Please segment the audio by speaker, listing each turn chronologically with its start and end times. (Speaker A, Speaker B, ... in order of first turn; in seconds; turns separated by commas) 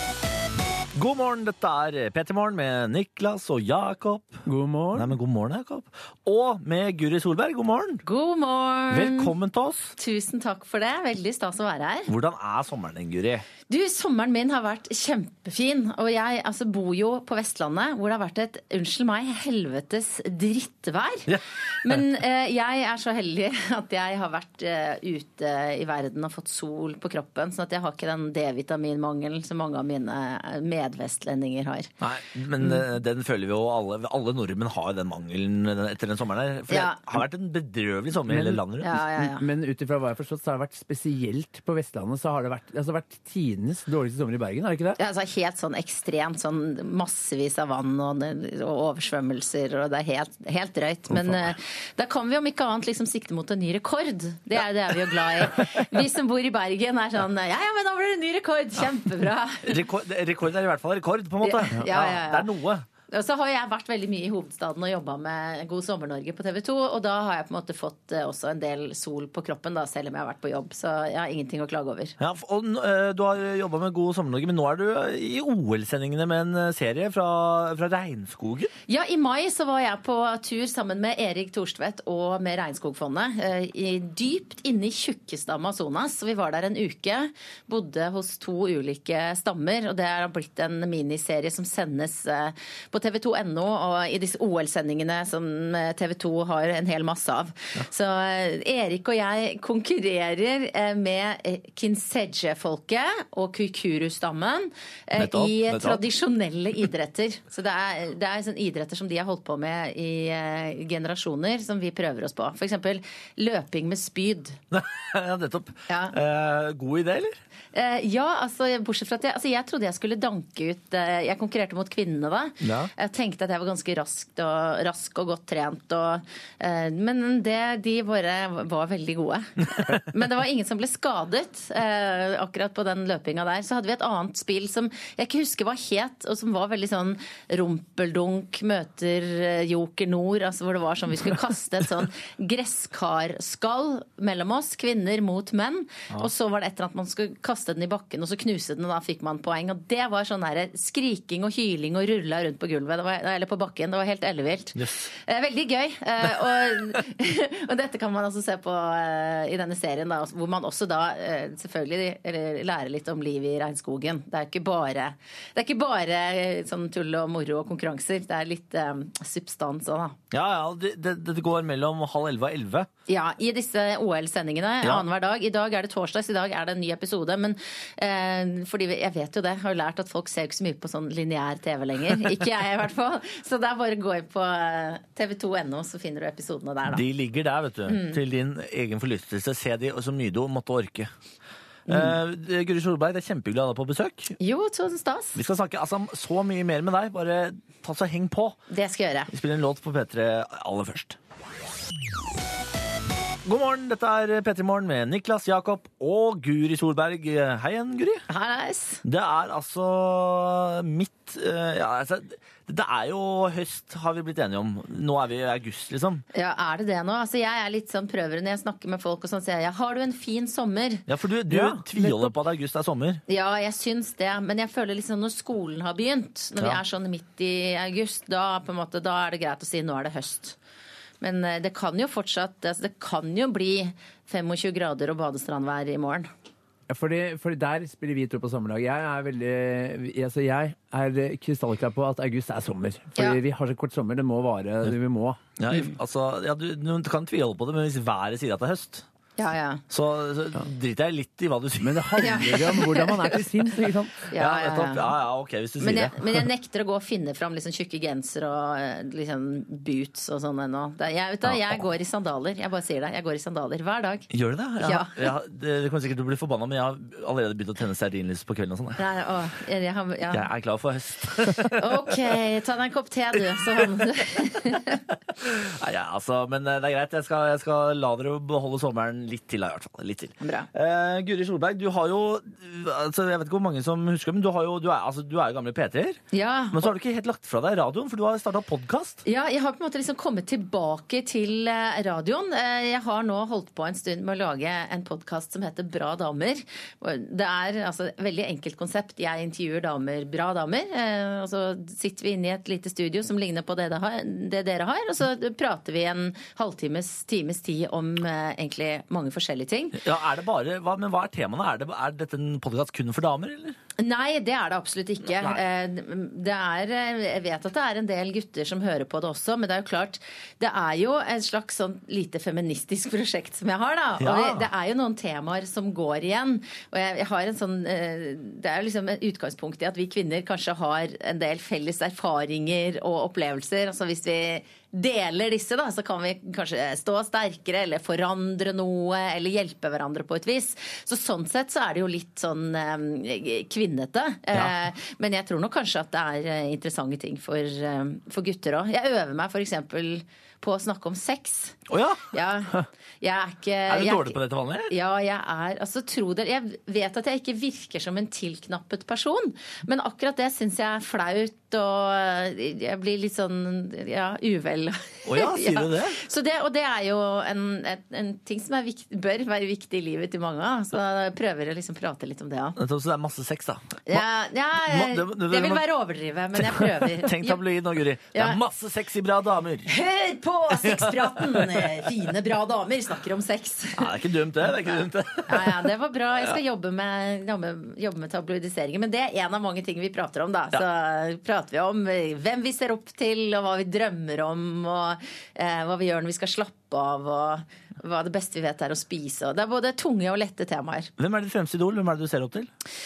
Speaker A: 0.9-8.0, Speaker B: 4.5-5.1, Speaker C: 8.1-9.3, Speaker A: 8.9-9.9, Speaker C: 10.0-12.1, Speaker A: 12.1-13.5, Speaker C: 13.7-31.9, Speaker A: 21.3-22.0, Speaker A: 32.0-39.0, Speaker C: 36.7-37.1, Speaker B: 38.3-38.6, Speaker C: 38.8-39.5, Speaker B: 39.1-45.0, Speaker C: 45.0-59.8, Speaker A: 51.1-51.5, Speaker A: 59.6-62.9, Speaker C: 61.4-62.5, Speaker C: 63.1-72.2, Speaker A: 72.2-78.7, Speaker C: 78.9-114.6, Speaker A: 105.2-106.0, Speaker A: 114.7-117.4, Speaker C: 115.9-116.2, Speaker C: 117.7-170.2, Speaker A: 122.6-122.9, Speaker A: 154.8-155.1, Speaker A: 170.3-172.9, Speaker C: 173.1-187.0, Speaker A: 186.9-191.1, Speaker C: 187.9-188.2, Speaker A: 191.9-194.3, Speaker C: 191.9-192.2, Speaker C: 194.4-195.4, Speaker A: 195.3-198.6, Speaker C: 198.7-199.3, Speaker A: 199.3-201.2, Speaker A: 203.4-208.2, Speaker C: 208.3-209.0, Speaker A: 209.0-216.2, Speaker C: 216.3-221.1, Speaker A: 221.1-223.2, Speaker B: 221.5-222.3, Speaker C: 223.3-230.6, Speaker C: 231.2-236.3, Speaker B: 236.9-245.4, Speaker A: 245.6-249.1, Speaker C: 249.4-249.8, Speaker A: 249.9-252.7, Speaker B: 251.8-254.2, Speaker C: 252.2-253.3, Speaker C: 254.3-255.1, Speaker A: 254.3-256.5, Speaker C: 255.8-264.3, Speaker A: 261.4-261.8, Speaker A: 264.3-269.0, Speaker C: 264.8-265.3, Speaker C: 269.0-270.5, Speaker A: 270.3-272.4, Speaker C: 271.6-275.0, Speaker A: 273.5-273.9, Speaker A: 275.4-286.2, Speaker C: 280.4-280.7, Speaker C: 286.3-286.9, Speaker A: 286.7-289.2, Speaker C: 289.2-310.0, Speaker A: 309.9-313.8, Speaker C: 314.0-354.4, Speaker A: 315.4-315.6, Speaker A: 324.2-324.7, Speaker A: 351.9-352.3, Speaker A: 353.9-354.9, Speaker C: 354.9-372.8, Speaker A: 365.3-366.2, Speaker A: 372.8-374.2, Speaker C: 374.1-377.6, Speaker A: 374.9-375.9, Speaker A: 376.6-379.9, Speaker C: 378.3-378.6, Speaker C: 379.9-384.2, Speaker A: 380.8-381.9, Speaker A: 383.9-385.9, Speaker C: 385.5-401.1, Speaker A: 401.2-402.7